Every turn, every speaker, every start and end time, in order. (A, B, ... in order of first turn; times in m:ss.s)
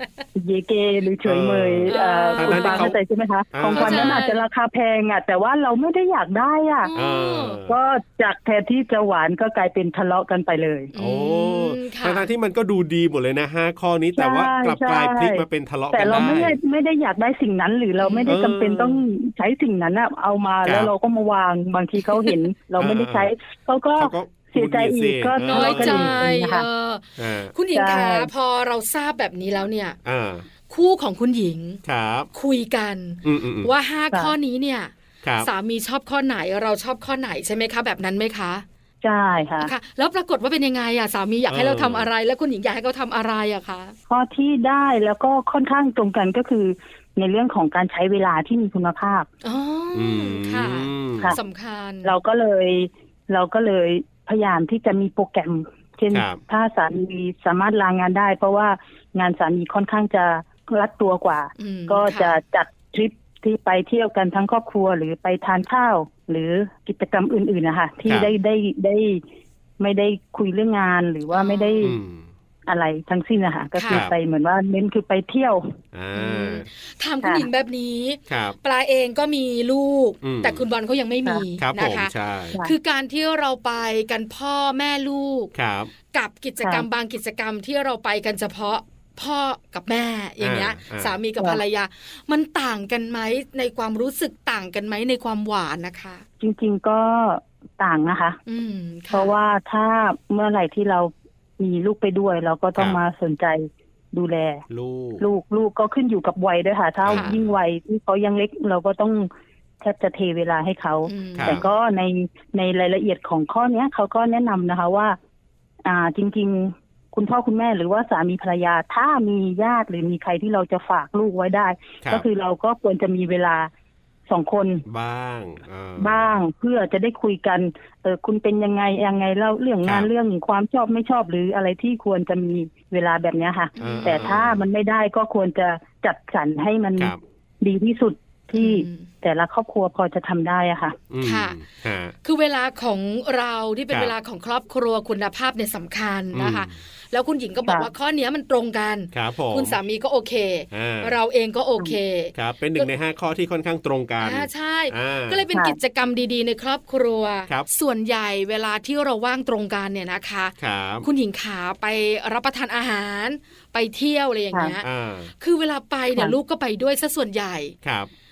0:00.4-0:06.9 A
0:01.2-0:03.0 B
0:01.9-0:02.9 C
0:03.5-0:04.2 B
0:03.7-0:04.4 C
0:06.8-0:07.6 C
0:06.9-0:07.8 B
0:07.7-0:10.9 A
0:10.9-0:12.3 C
0:11.0-0:16.6 B
0:14.2-0:26.7 A
0:18.0-0:18.4 C
0:18.3-0:19.0 B
0:20.6-0:20.9 B
0:22.8-0:23.3 B
0:24.0-0:26.2 B
0:25.4-0:30.0 C
0:27.2-0:27.5 B
0:27.7-0:28.3 A
0:30.0-0:30.5 B
0:30.7-0:31.8 C
0:31.8-0:32.3 B
0:32.3-0:38.6 C
0:33.2-0:33.7 B
0:35.2-0:35.5 B
0:39.0-0:39.7 A
0:39.6-0:44.0 C
0:41.5-0:42.1 B
0:44.1-0:49.3 A
0:49.4-0:52.2 C
0:49.9-0:51.4 B
0:52.0-1:09.2 A
0:56.1-0:56.4 B
1:01.6-1:02.4 C
1:08.1-1:08.3 B
1:09.8-1:12.0 A
1:11.3-1:12.0 C
1:11.8-1:12.3 B
1:12.7-1:15.7 A
1:13.8-1:14.1 C
1:13.9-1:14.2 B
1:15.9-1:16.7 B
1:16.2-1:25.5 C
1:18.3-1:18.6 B
1:20.2-1:20.6 B
1:21.6-1:22.6 B
1:25.5-1:25.9 B
1:26.1-1:36.2 C
1:30.4-1:31.1 B
1:36.4-1:38.4 A
1:38.5-1:39.4 C
1:39.1-1:44.6 A
1:44.7-1:45.2 B
1:45.2-1:55.2 A
1:47.0-1:47.6 B
1:47.1-1:47.3 C
1:51.1-1:51.7 C
1:51.4-1:51.6 B
1:55.8-2:03.7 A
2:04.3-2:04.8 A
2:04.9-2:06.4 B
2:06.0-2:21.0 A
2:09.8-2:10.1 B
2:13.8-2:14.4 C
2:13.8-2:14.7 B
2:18.5-2:19.1 C
2:21.1-2:22.1 B
2:21.2-2:21.6 C
2:22.2-2:32.9 C
2:26.3-2:26.7 B
2:29.1-2:29.8 B
2:30.7-2:31.2 B
2:32.3-2:35.4 B
2:34.2-2:44.9 C
2:40.6-2:41.1 B
2:44.8-2:45.3 B
2:45.4-2:47.7 C
2:47.8-2:48.1 B